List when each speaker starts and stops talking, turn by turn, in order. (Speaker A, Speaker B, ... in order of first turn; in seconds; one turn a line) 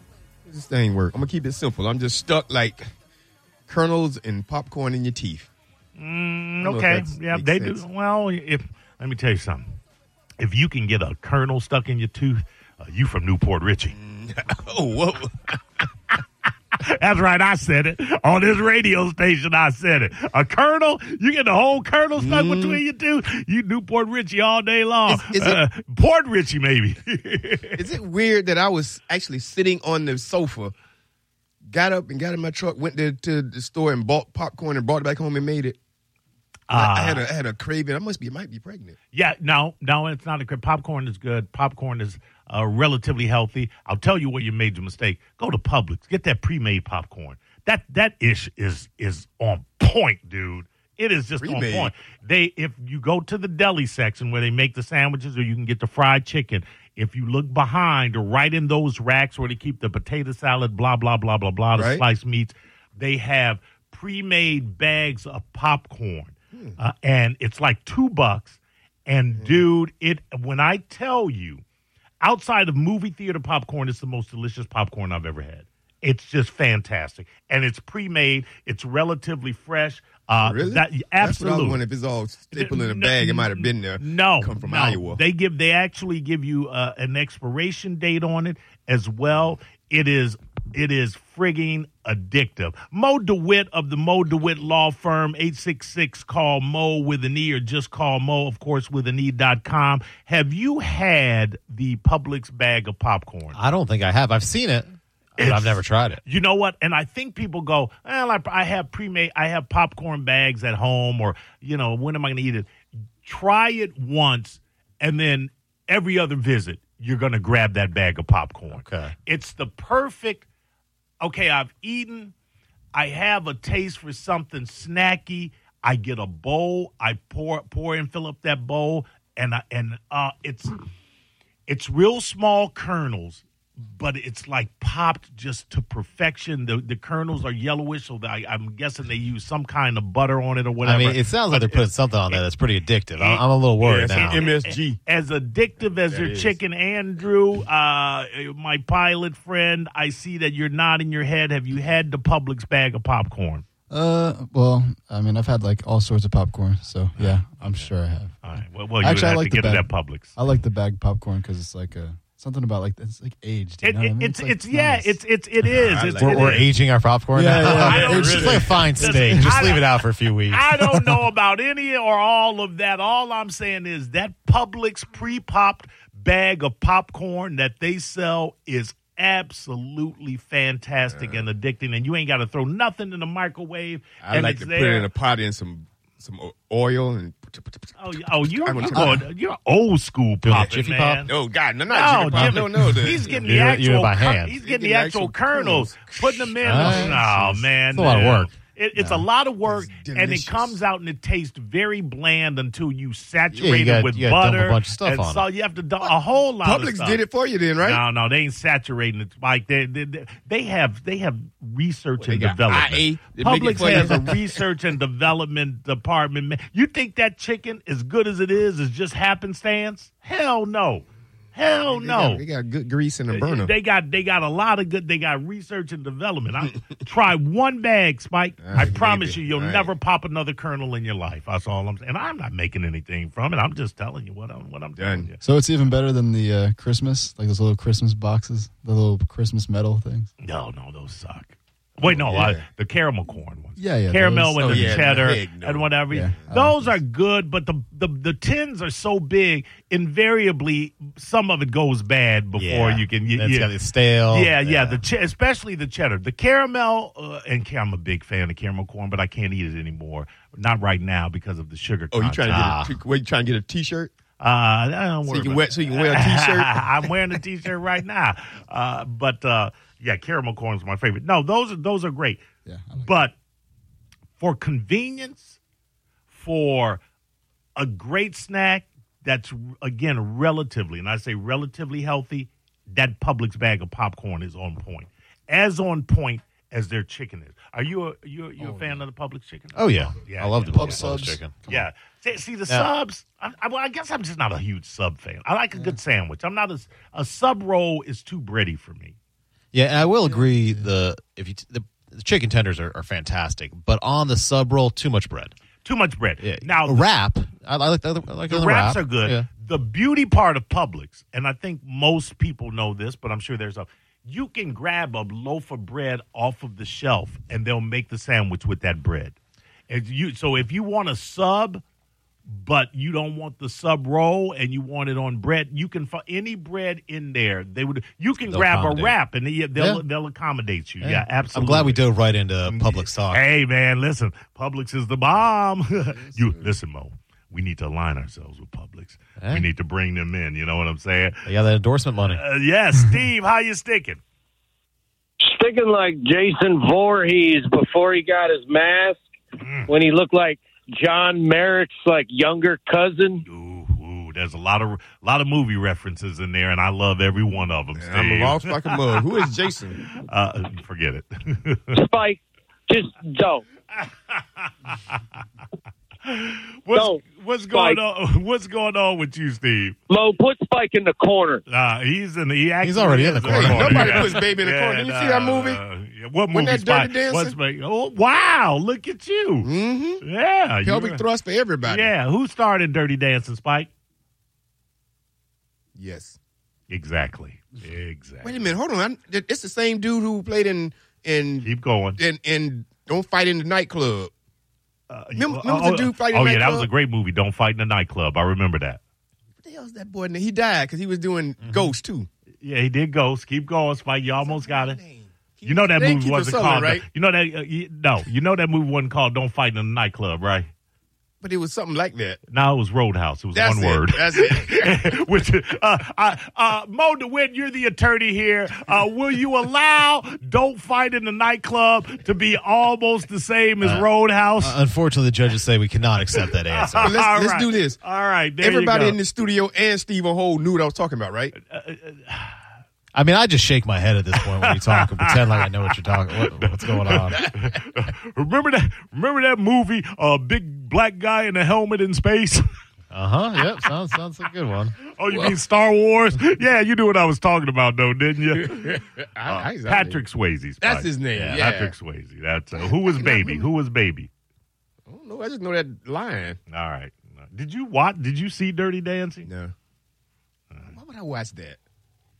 Speaker A: 0.5-2.9
Speaker A: 3.7-5.5
Speaker B: 6.0-9.7
Speaker A: 6.6-7.8
Speaker B: 10.4-13.9
Speaker A: 13.9-15.6
Speaker B: 16.8-27.9
Speaker A: 22.2-22.8
Speaker A: 25.1-25.6
Speaker A: 27.7-30.7
Speaker A: 31.7-35.8
Speaker B: 36.7-37.2
Speaker A: 36.7-39.0
Speaker B: 39.1-71.6
Speaker A: 51.4-51.9
Speaker A: 61.7-62.0
Speaker A: 69.3-69.6
Speaker B: 72.2-81.8
Speaker A: 80.4-85.2
Speaker B: 82.5-103.6
Speaker C: 103.5-106.2
Speaker B: 105.4-112.7
Speaker B: 113.2-120.5
Speaker C: 118.7-119.1
Speaker B: 121.2-122.3
Speaker B: 122.9-130.7
Speaker B: 131.7-142.4
Speaker C: 140.8-144.4
Speaker B: 143.2-153.6
Speaker A: 143.8-145.0
Speaker A: 146.1-146.6
Speaker D: 153.9-165.2
Speaker B: 157.2-160.3
Speaker B: 163.8-166.7
Speaker A: 165.8-166.6
Speaker C: 166.2-170.6
Speaker D: 167.3-169.6
Speaker B: 167.5-169.9
Speaker A: 167.8-168.8
Speaker B: 170.5-185.1
Speaker A: 181.1-181.4
Speaker A: 184.2-189.2
Speaker B: 188.0-191.3
Speaker C: 190.4-191.3
Speaker A: 191.3-193.4
Speaker B: 191.9-207.2
Speaker C: 192.4-194.6
Speaker A: 194.6-197.4
Speaker C: 196.6-198.5
Speaker A: 199.6-200.8
Speaker C: 203.5-205.4
Speaker A: 206.0-208.0
Speaker B: 207.8-222.4
Speaker A: 212.2-214.5
Speaker A: 221.8-223.7
Speaker B: 223.3-235.4
Speaker A: 228.6-229.9
Speaker A: 235.0-235.3
Speaker D: 235.4-240.3
Speaker B: 240.4-253.7
Speaker A: 242.0-242.6
Speaker D: 243.8-245.2
Speaker A: 244.5-246.5
Speaker D: 246.1-247.0
Speaker C: 252.6-255.0
Speaker B: 254.3-262.8
Speaker A: 262.1-264.1
Speaker C: 262.5-262.9
Speaker B: 264.4-272.4
Speaker A: 265.3-267.1
Speaker D: 272.6-273.2
Speaker B: 272.9-273.3
Speaker B: 274.4-275.6
Speaker B: 276.3-277.0
Speaker B: 277.8-299.1
Speaker C: 289.7-291.6
Speaker D: 290.8-291.9
Speaker C: 299.7-305.5
Speaker B: 305.8-307.0
Speaker C: 306.4-309.4
Speaker B: 308.5-319.4
Speaker B: 319.9-321.8
Speaker B: 322.5-332.0
Speaker C: 328.4-329.2
Speaker C: 329.8-330.0
Speaker C: 331.0-333.4
Speaker B: 332.6-341.4
Speaker C: 339.4-339.6
Speaker C: 341.4-342.4
Speaker B: 342.3-344.2
Speaker E: 345.4-349.2
Speaker B: 349.6-349.9
Speaker E: 349.9-353.4
Speaker B: 353.5-358.9
Speaker A: 357.9-360.0
Speaker B: 360.0-362.0
Speaker E: 361.9-363.6
Speaker B: 364.0-365.2
Speaker B: 366.2-370.0
Speaker E: 366.9-368.0
Speaker E: 370.1-371.6
Speaker B: 371.7-379.7
Speaker C: 372.8-374.3
Speaker A: 373.5-375.8
Speaker A: 376.5-377.6
Speaker A: 379.6-380.2
Speaker B: 380.2-381.2
Speaker A: 380.8-382.1
Speaker B: 381.8-383.9
Speaker A: 385.9-386.4
Speaker B: 386.9-388.6
Speaker A: 388.4-394.3
Speaker B: 391.6-392.2
Speaker B: 395.1-399.0
Speaker A: 395.3-396.9
Speaker A: 399.6-402.3
Speaker C: 401.6-401.9
Speaker B: 402.6-405.0
Speaker A: 404.4-407.0
Speaker B: 405.6-410.7
Speaker A: 411.4-412.4
Speaker B: 412.5-424.8
Speaker A: 413.5-415.1
Speaker C: 423.8-424.1
Speaker C: 424.6-427.1
Speaker B: 426.7-429.2
Speaker A: 427.0-428.0
Speaker A: 428.6-431.5
Speaker B: 431.6-432.6
Speaker C: 433.1-437.4
Speaker B: 434.3-435.6
Speaker B: 436.4-442.6
Speaker C: 443.1-444.9
Speaker B: 445.0-454.3
Speaker A: 448.7-450.2
Speaker A: 450.8-451.9
Speaker A: 452.8-453.7
Speaker A: 455.1-456.6
Speaker B: 456.7-459.5
Speaker A: 459.4-459.7
Speaker A: 460.8-461.8